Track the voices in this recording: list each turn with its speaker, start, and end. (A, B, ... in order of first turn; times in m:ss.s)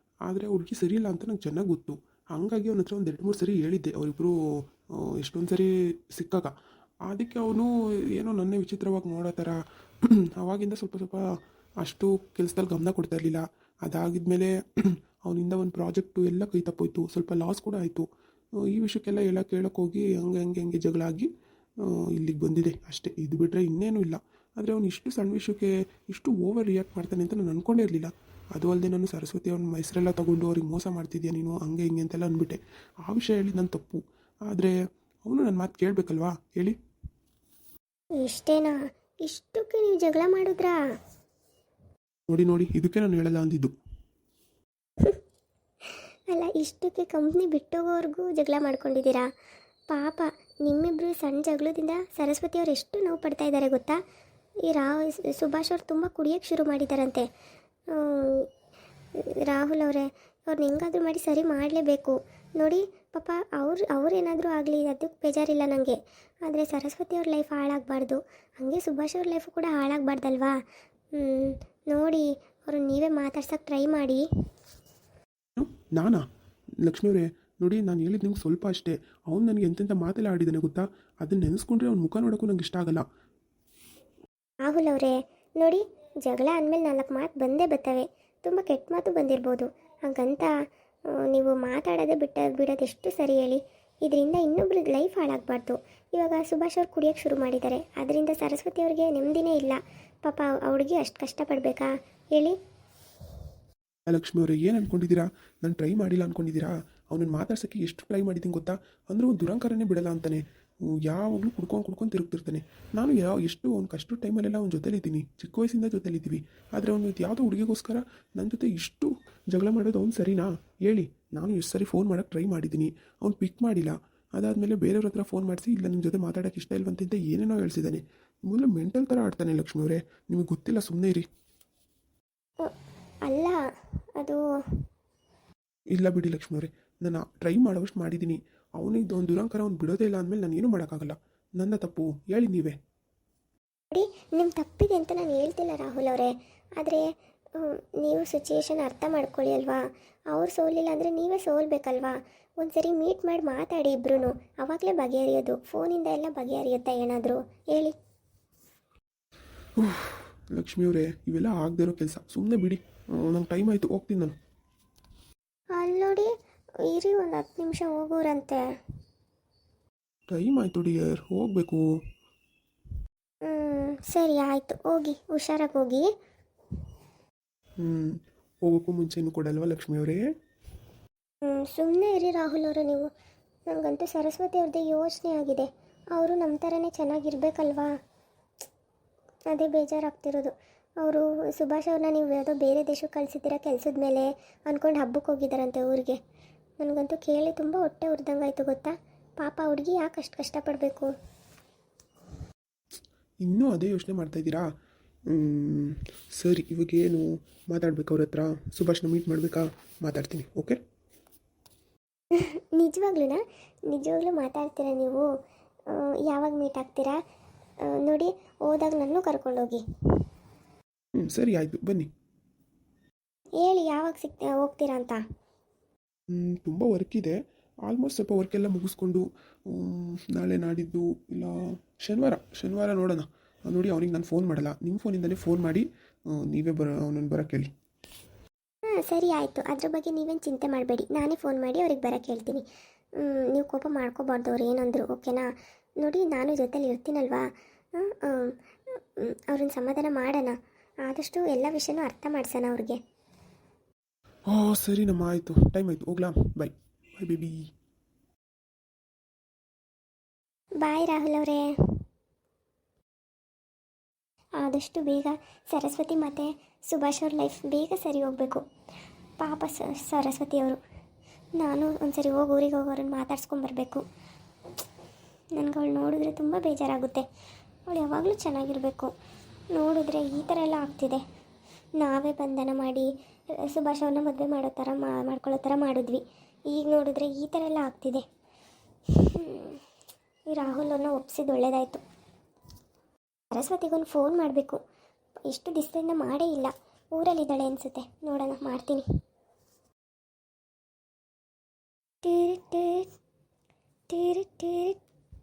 0:00.3-0:06.5 A
0:07.1-0:11.2 A
0:11.8-0:18.1 A
0:18.6-0:21.3 A
0:21.8-0:34.7 A
0:35.2-0:36.8 A
0:38.2-0:40.8 B
0:42.3-0:43.7 A
0:45.8-0:49.3 B
0:49.9-0:54.0 B
0:54.7-0:57.3 B
0:57.9-0:58.5 B
0:59.2-1:10.6 B
1:11.2-1:14.2 B
1:15.6-1:16.2 A
1:16.8-1:23.1 A
1:24.6-1:30.5 B
1:31.2-1:42.6 B
1:44.1-1:50.4 A
1:51.0-2:11.3 A
2:13.2-2:13.6 B
2:15.9-2:22.8 A
2:23.9-2:27.0 B
2:27.6-2:38.0 B
2:39.8-2:44.4 A
2:45.8-2:46.3 B
2:46.9-2:48.6 B
2:50.3-2:51.8 A
2:53.5-2:56.1 B
2:57.8-3:00.2 A
3:01.4-3:03.1 B
3:03.7-3:07.9 B
3:09.5-3:16.2 B
3:16.8-3:21.1 B
3:23.4-3:24.7 A
3:25.3-3:30.8 A
3:32.3-3:35.3 B
3:35.9-3:37.2 B
3:37.8-3:40.2 B
3:41.2-3:42.1 A
3:43.6-3:45.2 B
3:46.3-3:57.7 A
3:58.9-4:02.6 B
4:03.2-4:13.0 B
4:14.5-4:17.7 A
4:20.8-4:21.6 B
4:24.6-4:28.6 B
4:29.4-4:30.8 B
4:31.6-4:34.0 B
4:35.6-4:37.2 B
4:37.9-4:39.1 B
4:39.7-4:41.2 B
4:42.0-4:48.2 B
4:49.1-4:49.8 B
4:50.5-4:52.0 B
4:53.5-4:54.8 B
4:55.5-4:59.0 B
5:02.2-5:03.1 B
5:04.1-5:05.0 B